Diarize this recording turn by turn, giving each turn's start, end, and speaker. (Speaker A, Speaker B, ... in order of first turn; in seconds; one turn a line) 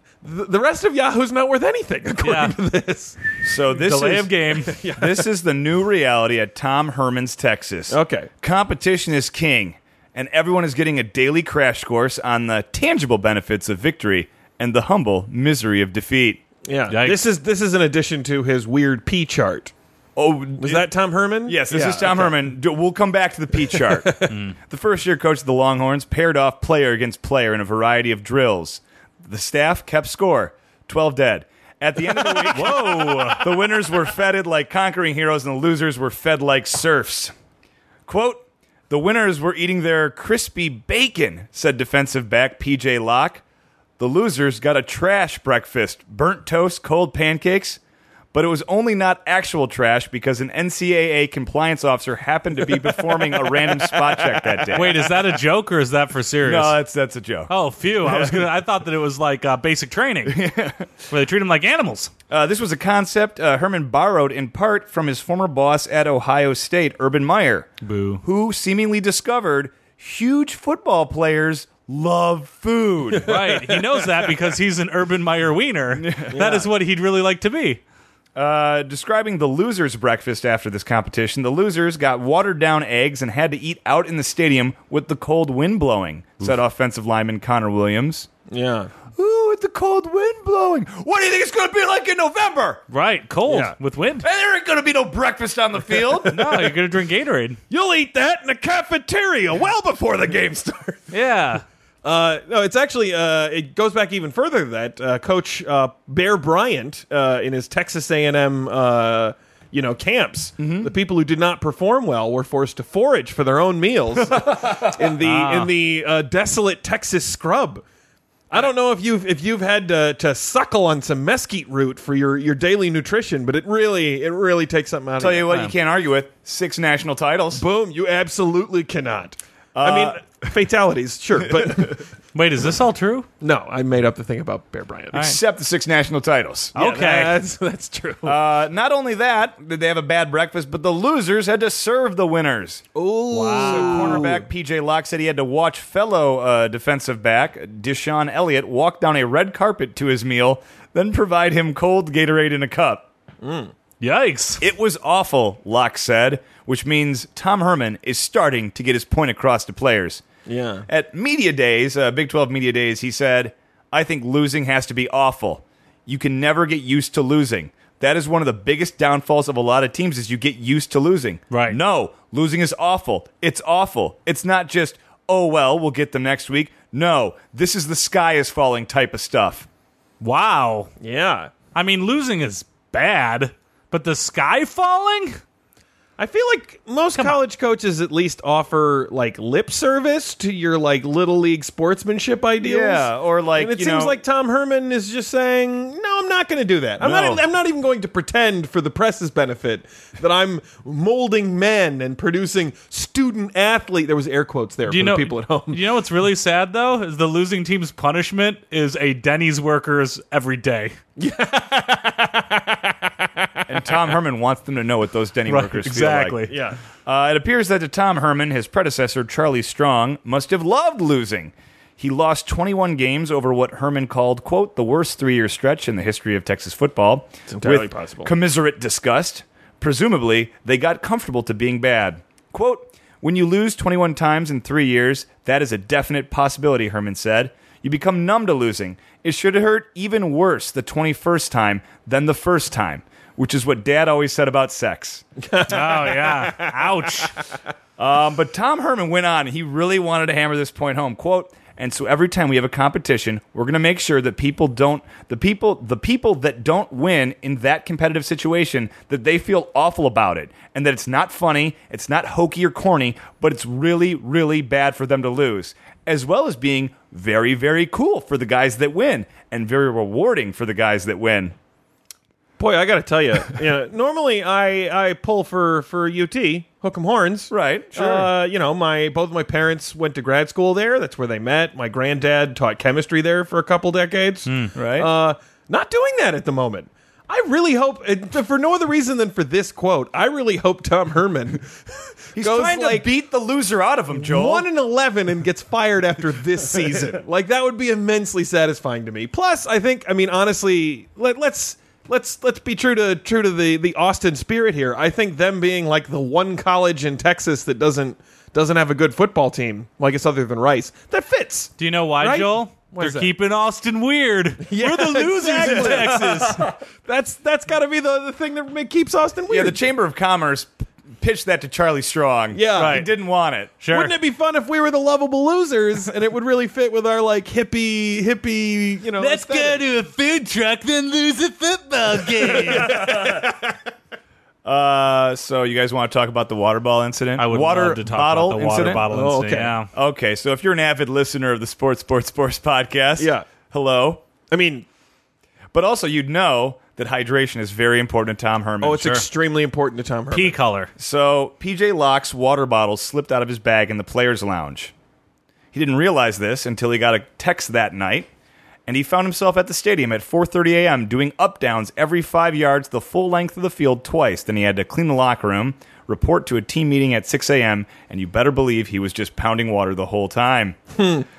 Speaker A: 0.2-3.2
Speaker B: 2.2-2.5
Speaker C: 3.4-4.3
Speaker B: 3.7-4.8
Speaker A: 4.6-5.2
Speaker C: 4.9-16.4
Speaker A: 7.9-8.3
Speaker A: 16.6-19.7
Speaker B: 16.9-17.2
Speaker C: 20.1-20.9
Speaker A: 20.6-22.3
Speaker C: 21.4-37.3
Speaker A: 23.7-24.3
Speaker A: 32.1-33.4
Speaker B: 32.5-33.4
Speaker C: 38.1-43.4
Speaker C: 44.0-47.8
Speaker C: 48.3-55.0
Speaker A: 54.3-55.1
Speaker B: 54.7-56.8
Speaker C: 56.4-58.5
Speaker B: 57.5-60.4
Speaker C: 60.2-60.9
Speaker B: 61.1-62.1
Speaker C: 62.3-67.7
Speaker B: 67.8-68.2
Speaker C: 68.2-73.3
Speaker A: 73.2-74.2
Speaker B: 73.2-77.8
Speaker C: 75.9-76.4
Speaker A: 76.3-76.7
Speaker C: 78.3-88.3
Speaker A: 88.5-88.9
Speaker C: 89.1-92.8
Speaker B: 92.9-94.2
Speaker A: 93.5-93.8
Speaker C: 94.2-96.7
Speaker B: 96.3-97.6
Speaker A: 97.7-101.1
Speaker B: 101.1-101.6
Speaker A: 102.0-117.8
Speaker C: 110.6-110.9
Speaker C: 114.3-115.0
Speaker B: 115.2-115.7
Speaker A: 118.5-125.4
Speaker C: 125.2-127.6
Speaker A: 127.5-132.1
Speaker C: 129.7-130.2
Speaker B: 132.3-133.3
Speaker A: 133.4-135.2
Speaker C: 135.1-136.7
Speaker B: 136.7-137.4
Speaker A: 136.7-138.4
Speaker C: 138.2-142.8
Speaker A: 142.9-144.4
Speaker B: 143.3-144.3
Speaker C: 143.6-153.1
Speaker A: 153.4-153.7
Speaker B: 154.0-154.6
Speaker C: 154.6-160.2
Speaker A: 160.4-160.8
Speaker C: 160.9-179.7
Speaker B: 171.5-171.8
Speaker B: 180.2-180.9
Speaker A: 181.0-181.5
Speaker B: 181.7-185.4
Speaker A: 186.2-205.8
Speaker C: 192.6-194.2
Speaker C: 197.0-197.4
Speaker B: 204.9-210.9
Speaker A: 211.2-213.6
Speaker C: 213.7-216.4
Speaker B: 215.5-216.5
Speaker A: 216.5-216.8
Speaker C: 217.0-245.2
Speaker A: 227.5-228.3
Speaker A: 245.4-247.1
Speaker B: 245.7-247.4
Speaker C: 248.0-271.5
Speaker A: 272.6-293.1
Speaker C: 277.5-278.3
Speaker B: 284.5-284.7
Speaker C: 284.7-285.1
Speaker C: 292.4-294.6
Speaker A: 294.2-313.3
Speaker B: 311.8-316.6
Speaker A: 314.6-319.8
Speaker C: 315.6-316.5
Speaker C: 319.5-323.7
Speaker A: 322.5-323.1
Speaker B: 322.8-323.1
Speaker B: 323.8-324.1
Speaker A: 323.9-329.8
Speaker B: 329.2-333.1
Speaker A: 332.5-333.7
Speaker C: 332.8-333.4
Speaker C: 334.6-339.1
Speaker B: 337.4-339.9
Speaker A: 339.1-339.7
Speaker C: 339.9-344.2
Speaker A: 343.2-343.4
Speaker A: 344.5-344.9
Speaker C: 345.7-349.2
Speaker A: 348.8-350.6
Speaker B: 350.3-350.9
Speaker C: 351.0-354.9
Speaker C: 355.7-358.3
Speaker C: 358.9-370.8
Speaker A: 371.0-371.2